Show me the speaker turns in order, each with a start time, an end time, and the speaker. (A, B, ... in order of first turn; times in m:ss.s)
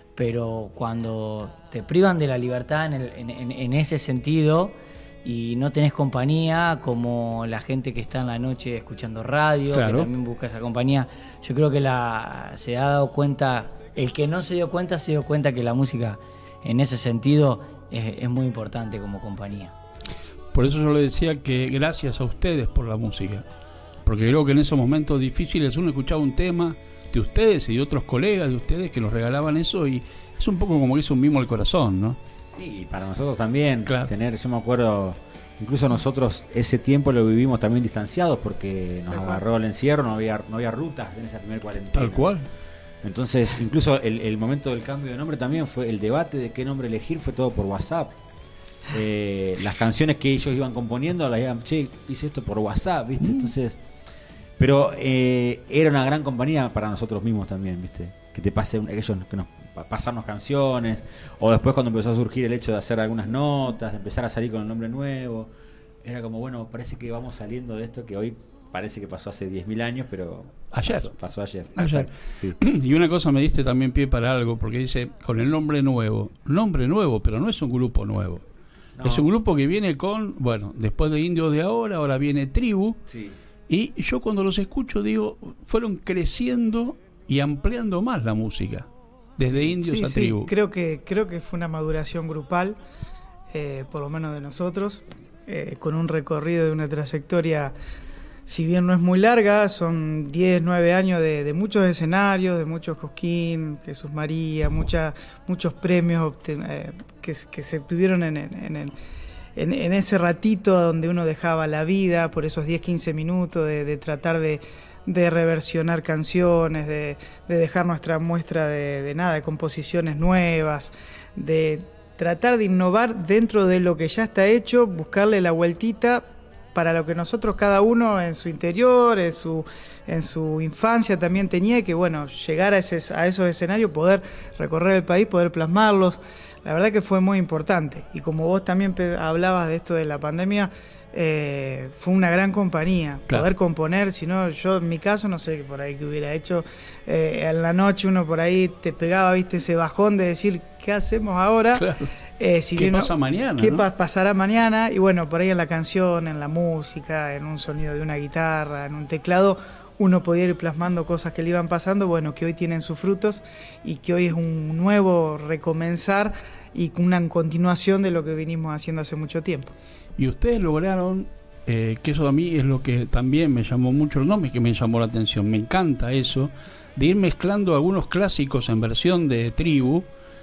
0:00.2-0:19.7 A
0:09.7-0:10.1 B
0:20.5-0:23.4 B
0:24.0-0:32.2 B
0:32.5-0:42.3 C
0:41.9-0:42.4 B
0:43.0-0:48.2 C
0:48.9-0:53.8 C
0:53.2-0:53.5 B
0:54.6-1:05.5 C
1:06.0-1:12.6 C
1:10.7-1:11.1 B
1:11.8-1:18.4 B
1:19.0-1:19.3 C
1:19.0-1:23.0 B
1:23.1-1:23.4 C
1:23.7-1:30.5 B
1:29.6-1:32.8 D
1:33.5-1:37.8 D
1:38.4-1:48.9 D
1:49.6-2:49.7 D
2:31.8-2:32.1 B
2:32.8-2:33.8 B
2:50.2-3:00.1 B